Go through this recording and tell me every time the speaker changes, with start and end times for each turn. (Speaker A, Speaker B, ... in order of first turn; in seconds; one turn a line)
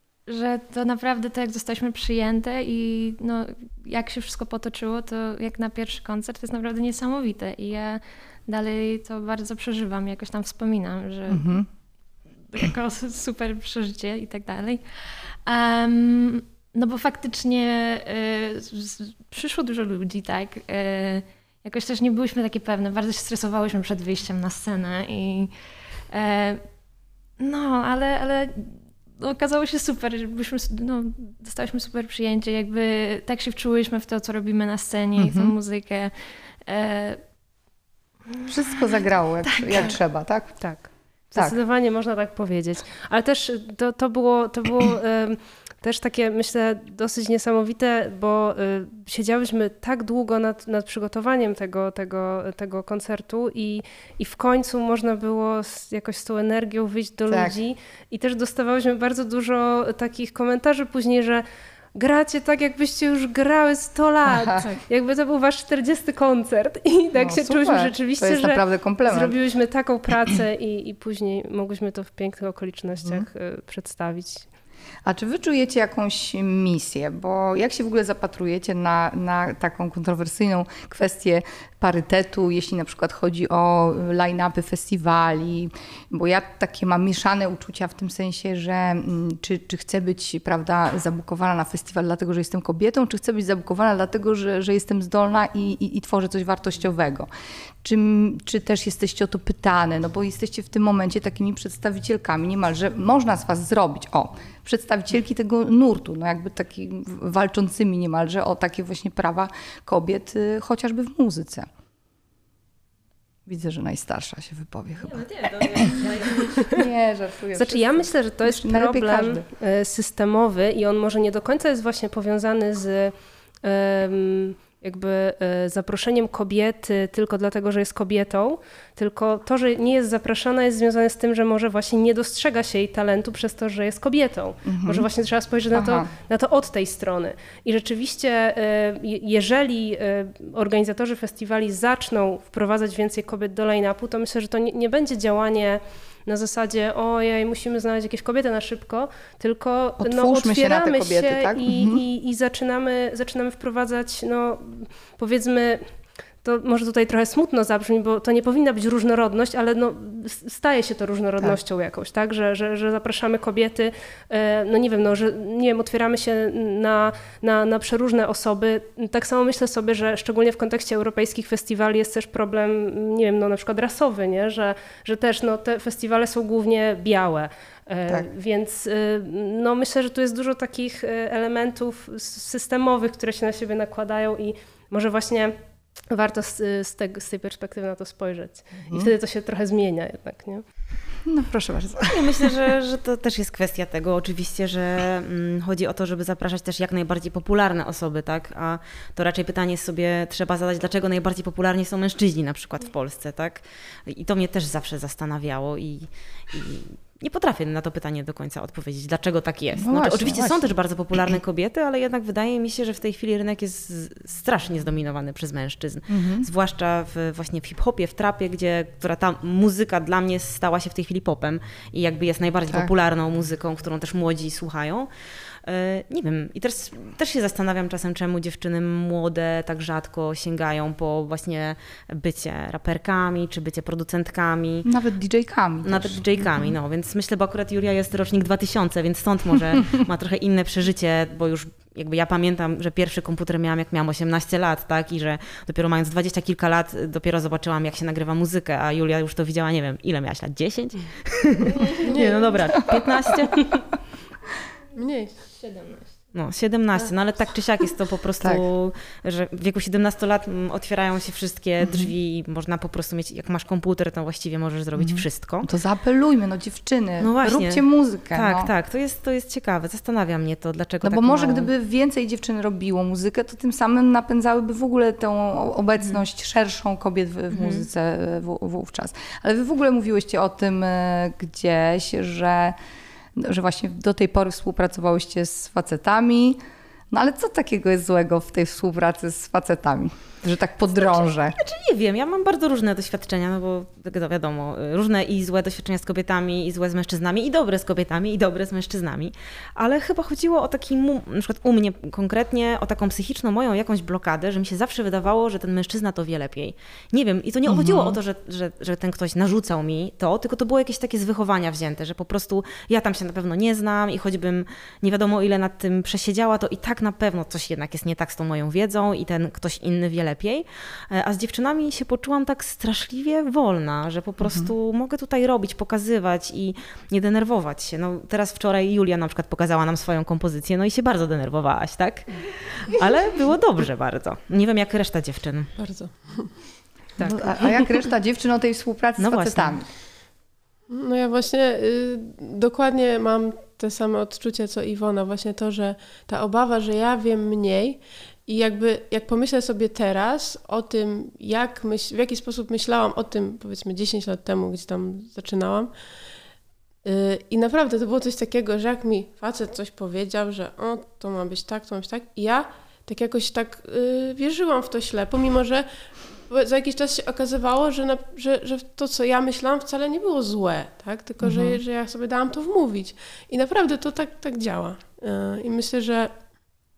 Speaker A: 0.2-11.6
Speaker B: 11.3-11.7
Speaker A: 12.5-25.5
Speaker A: 26.1-26.7
Speaker A: 27.4-37.2
Speaker B: 35.2-35.5
Speaker B: 38.5-41.6
Speaker A: 39.4-39.9
Speaker C: 40.6-74.5
Speaker B: 57.3-57.5
Speaker B: 64.3-64.6
Speaker B: 67.1-69.3
Speaker B: 75.0-97.3
Speaker B: 97.8-111.7
Speaker B: 113.5-119.5
Speaker A: 115.0-116.6
Speaker C: 117.5-155.9
Speaker B: 134.7-135.1
Speaker B: 135.7-136.1
Speaker B: 150.0-152.0
Speaker C: 156.4-185.5
Speaker C: 186.1-190.6
Speaker B: 191.2-192.3
Speaker D: 192.1-225.1
Speaker B: 209.8-211.4
Speaker B: 216.1-216.5
Speaker D: 225.6-234.9
Speaker B: 234.8-236.7
Speaker D: 235.8-253.7
Speaker E: 252.0-252.5
Speaker E: 254.9-256.1
Speaker D: 256.3-265.7
Speaker B: 261.8-262.1
Speaker B: 264.9-268.7
Speaker D: 267.2-271.7
Speaker B: 271.0-282.8
Speaker D: 277.5-277.8
Speaker B: 283.4-286.6
Speaker B: 287.1-291.6
Speaker D: 290.9-335.7
Speaker B: 307.7-308.2
Speaker B: 324.4-324.7
Speaker E: 335.8-336.5
Speaker B: 337.2-339.9
Speaker D: 339.2-339.8
Speaker E: 340.9-356.0
Speaker E: 357.0-376.4
Speaker B: 371.4-371.8